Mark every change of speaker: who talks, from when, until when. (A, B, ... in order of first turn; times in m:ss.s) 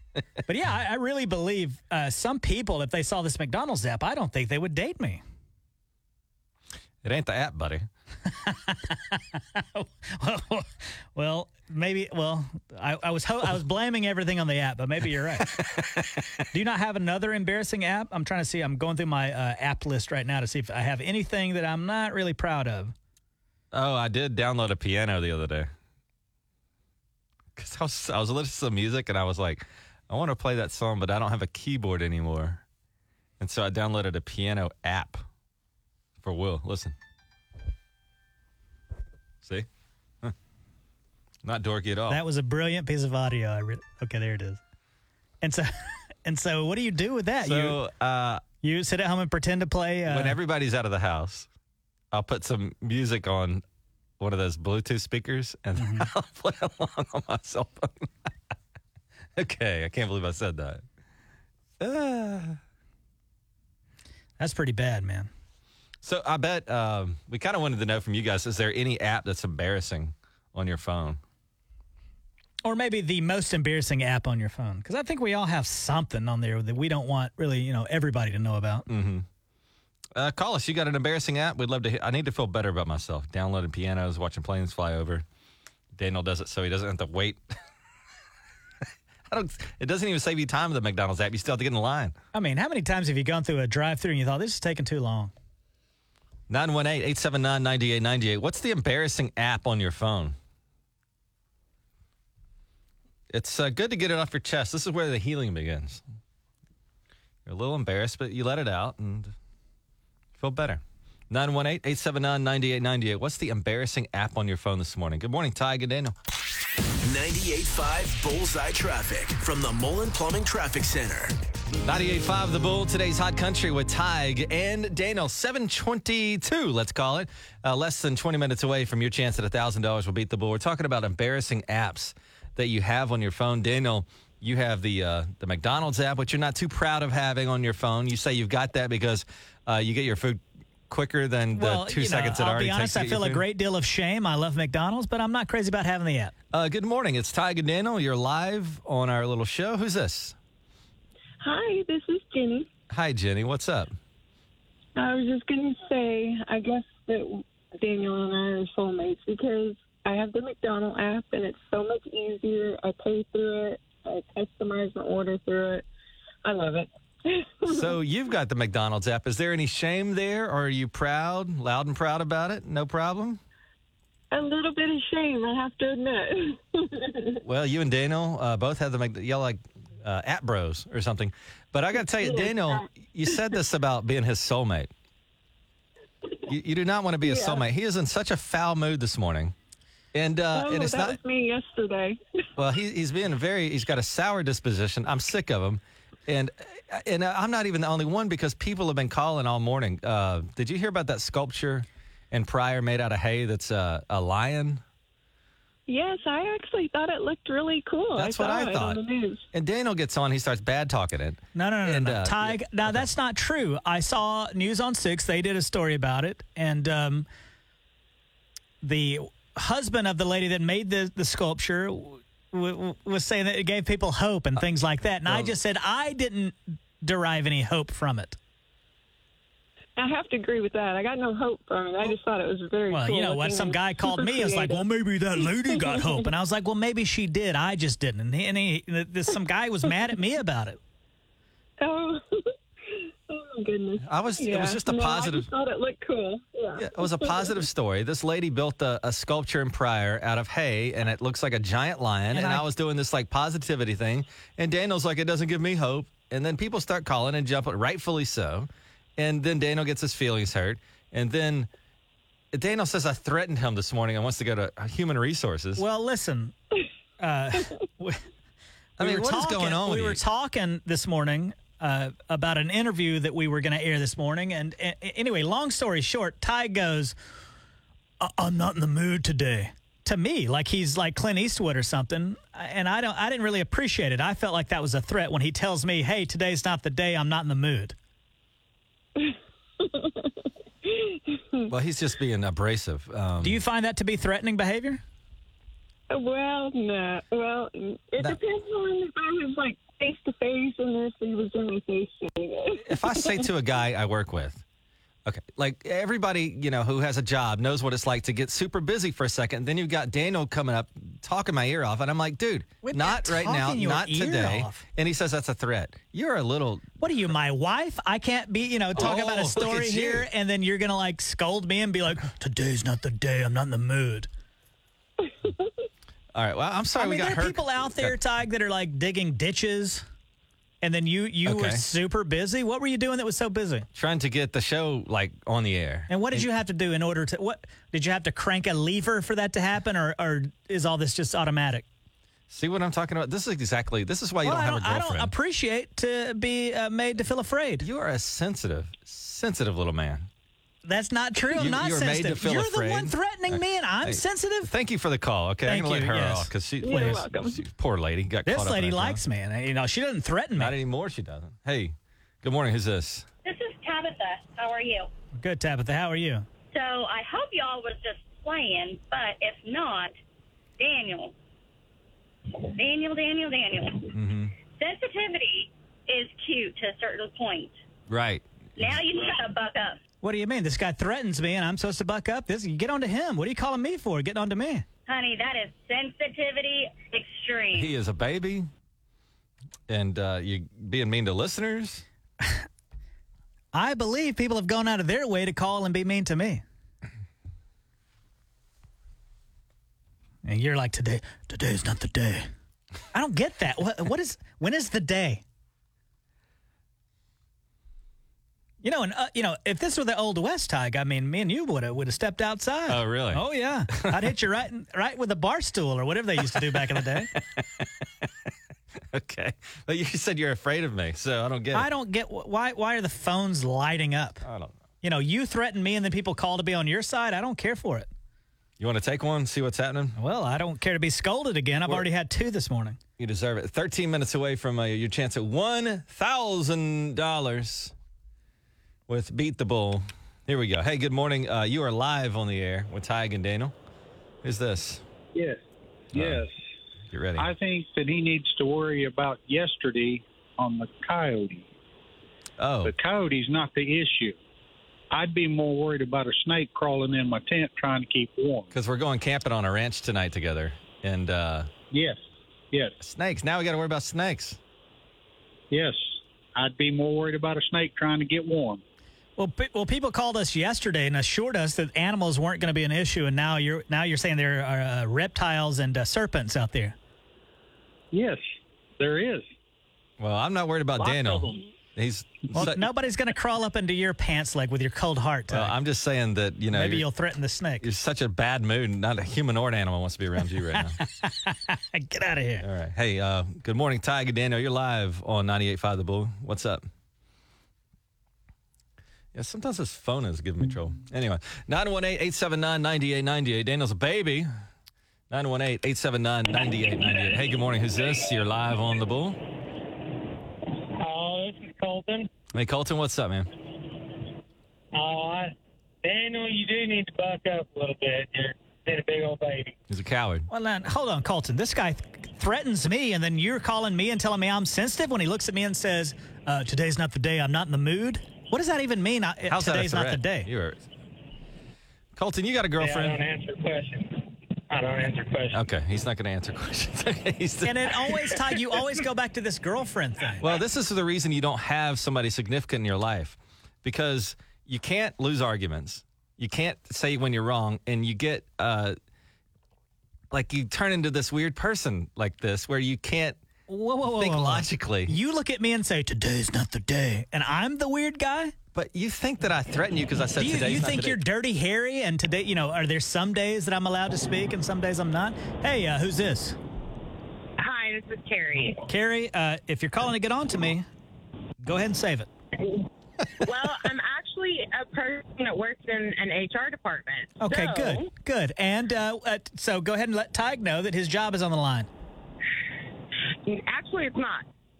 0:00.5-0:05.2 A
0:07.0-0:07.9 B
0:08.3-0:15.5 A
0:15.5-0:16.4 B
0:16.5-0:22.9 A
0:23.7-0:25.7 B
0:27.6-0:32.6 B
0:33.4-0:35.2 B
0:36.2-0:37.0 B
0:41.4-0:42.2 B
0:42.1-0:44.6 A
0:45.4-0:47.8 A
0:47.4-0:48.4 B
0:48.6-0:50.4 A
0:50.1-0:51.5 B
0:52.1-0:53.6 B
0:54.2-0:58.1 B
0:55.8-0:56.1 A
0:59.4-1:00.8 B
1:01.8-1:02.6 B
1:04.4-1:05.3 A
1:06.0-1:11.2 B
1:12.6-1:18.9 A
1:18.9-1:19.3 B
1:20.2-1:25.2 B
1:26.0-1:27.4 B
1:29.3-1:32.2 B
1:32.3-1:35.3 A
1:36.5-1:40.4 B
1:43.3-1:46.0 B
1:47.5-1:49.3 B
1:50.4-1:56.1 B
1:57.0-2:01.4 C
2:01.8-2:23.4 B
2:21.5-2:26.3 A
2:26.5-2:30.4 B
2:31.4-2:32.7 D
2:32.9-2:34.0 B
2:35.0-2:45.9 D
2:46.4-2:48.0 D
2:47.7-2:53.4 B
2:54.3-2:57.4 D
2:57.4-3:04.9 B
3:02.0-3:02.9 D
3:06.5-3:09.6 B
3:07.2-3:07.6 D
3:10.1-3:11.2 B
3:10.5-3:12.2 D
3:12.6-3:24.8 B
3:25.9-3:29.4 D
3:28.1-3:29.0 B
3:29.5-3:33.1 B
3:31.6-3:37.3 A
3:38.8-3:48.4 A
3:45.3-3:45.6 B
3:50.0-3:54.8 D
3:52.9-4:00.8 A
3:55.4-3:56.3 D
4:01.8-4:07.6 D
4:04.0-4:05.5 B
4:06.8-4:21.7 B
4:12.3-4:12.6 A
4:22.5-4:25.8 B
4:25.8-4:26.6 A
4:27.2-4:28.2 A
4:29.0-4:30.2 B
4:29.0-4:37.2 A
4:38.2-4:48.0 A
4:49.2-4:51.7 D
4:51.7-4:53.6 B
4:53.4-4:55.0 A
4:56.1-5:03.5 D
5:02.8-5:04.6 B
5:05.3-5:17.0 B
5:12.8-5:14.8 A
5:17.0-5:24.3 A
5:19.0-5:20.3 B
5:25.4-5:25.7 D
5:26.3-5:28.2 B
5:27.0-5:30.0 A
5:30.8-5:33.9 A
5:31.4-5:31.8 B
5:33.9-5:36.5 B
5:36.1-5:41.8 A
5:42.5-5:45.3 B
5:44.4-5:47.9 A
5:47.8-5:50.3 B
5:50.8-5:54.7 A
5:51.5-5:59.2 B
5:55.6-5:57.2 A
5:56.8-5:57.6 D
5:58.5-6:00.8 A
6:00.6-6:03.3 B
6:03.4-6:05.1 E
6:05.4-6:06.5 A
6:06.7-6:10.1 E
6:10.8-6:11.3 E
6:12.5-6:14.2 E
6:14.1-6:14.5 B
6:14.7-6:17.8 E
6:18.1-6:19.0 B
6:18.8-6:20.0 E
6:20.2-6:24.8 A
6:25.1-6:27.9 E
6:27.7-6:28.7 B
6:29.9-6:32.0 B
6:33.7-6:36.6 A
6:40.4-6:42.5 A
6:43.1-6:45.4 A
6:48.8-6:57.3 A
6:52.9-6:54.3 B
6:56.5-6:57.9 B
6:59.1-7:01.9 B
7:01.7-7:04.4 A
7:04.4-7:04.8 B
7:05.0-7:08.1 A
7:08.8-7:10.2 B
7:10.2-7:13.0 A
7:13.2-7:17.9 B
7:19.1-7:23.7 B
7:24.4-7:25.0 B
7:25.4-7:25.6 F
7:26.1-7:26.4 B
7:26.1-7:26.5 F
7:27.1-7:27.5 B
7:27.4-7:31.7 F
7:32.6-7:32.9 B
7:32.8-7:34.4 F
7:35.1-7:38.7 F
7:38.7-7:41.7 B
7:41.9-7:42.2 F
7:43.0-7:44.6 B
7:45.7-7:48.8 F
7:49.4-7:57.0 A
7:58.1-7:58.4 F
7:59.0-7:59.5 F
8:00.2-8:02.9 B
8:02.5-8:05.8 A
8:05.5-8:07.1 B
8:06.7-8:07.9 A
8:07.8-8:11.0 B
8:10.7-8:12.6 A
8:12.6-8:16.9 B
8:19.3-8:24.5 B
8:25.3-8:29.4 B
8:31.0-8:32.3 G
8:32.5-8:33.5 B
8:34.9-8:35.5 G
8:36.0-8:39.7 G
8:39.9-8:40.5 B
8:40.5-8:50.5 A
8:49.5-8:50.9 B
8:52.2-8:53.2 B
8:52.8-8:55.6 G
8:55.5-8:57.8 B
8:57.6-9:00.4 A
9:00.4-9:09.0 B
9:10.3-9:13.4 B
9:13.7-9:18.5 A
9:14.1-9:15.2 B
9:18.8-9:21.2 B
9:20.4-9:26.6 A
9:27.6-9:28.8 H
9:28.9-9:30.9 A
9:31.6-9:32.3 A
9:33.4-9:38.1 H
9:37.4-9:41.9 A
9:43.5-9:44.4 H